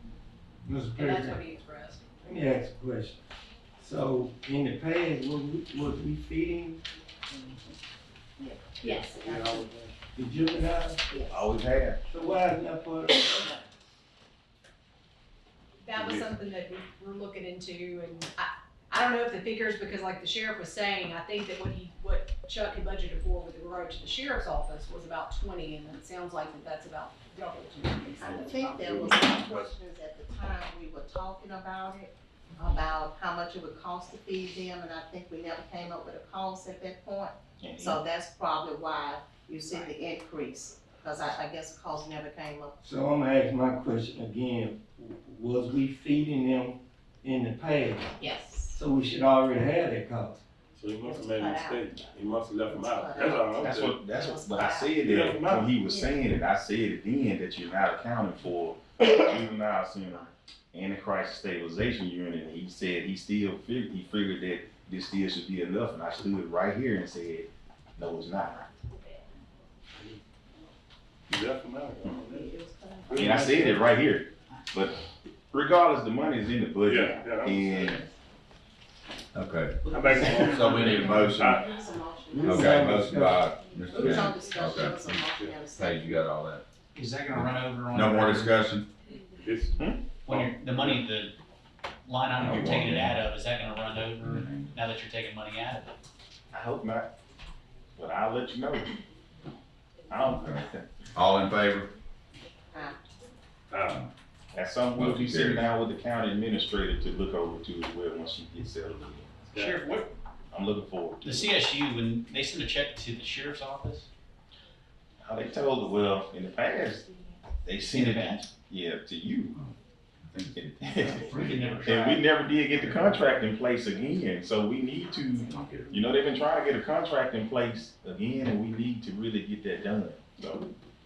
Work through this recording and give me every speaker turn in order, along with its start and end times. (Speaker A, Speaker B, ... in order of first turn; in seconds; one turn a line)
Speaker A: 0.6-1.4
Speaker B: 0.9-2.1
Speaker A: 2.2-3.2
Speaker A: 3.8-6.8
Speaker C: 7.3-7.7
Speaker C: 8.4-9.7
Speaker B: 8.8-9.2
Speaker D: 9.1-9.9
Speaker A: 10.1-11.0
Speaker C: 11.1-11.4
Speaker E: 11.3-12.0
Speaker A: 12.0-13.5
Speaker B: 15.8-28.6
Speaker D: 15.9-16.3
Speaker C: 28.1-42.8
Speaker D: 28.2-29.7
Speaker E: 37.6-38.0
Speaker A: 42.8-48.2
Speaker C: 48.2-48.7
Speaker A: 48.7-50.4
Speaker D: 50.7-54.0
Speaker C: 51.0-55.3
Speaker E: 53.6-68.6
Speaker D: 55.0-55.7
Speaker C: 55.9-56.1
Speaker D: 71.3-72.5
Speaker C: 72.0-73.8
Speaker D: 73.1-73.8
Speaker E: 73.2-75.0
Speaker E: 75.5-78.0
Speaker D: 76.8-77.9
Speaker C: 76.9-78.1
Speaker F: 79.3-81.6
Speaker D: 79.9-82.0
Speaker C: 80.1-86.1
Speaker A: 82.3-83.5
Speaker F: 82.5-85.2
Speaker D: 85.3-85.6
Speaker F: 85.7-86.6
Speaker G: 86.9-88.6
Speaker F: 87.3-88.9
Speaker D: 89.4-91.0
Speaker G: 90.2-91.3
Speaker G: 92.0-96.0
Speaker F: 92.4-93.2
Speaker F: 94.2-94.7
Speaker E: 96.5-97.1
Speaker E: 98.0-98.9
Speaker E: 100.1-100.9
Speaker F: 101.1-101.9
Speaker C: 102.7-103.0
Speaker D: 103.7-104.0
Speaker F: 103.8-104.1
Speaker E: 104.5-109.5
Speaker F: 105.0-105.7
Speaker D: 109.5-109.9
Speaker G: 109.5-110.1
Speaker E: 110.5-111.6
Speaker G: 111.2-114.1
Speaker E: 115.2-117.1
Speaker E: 117.6-119.5
Speaker G: 117.9-118.4
Speaker F: 120.2-121.6
Speaker E: 120.6-130.7
Speaker G: 121.0-123.2
Speaker F: 125.5-125.9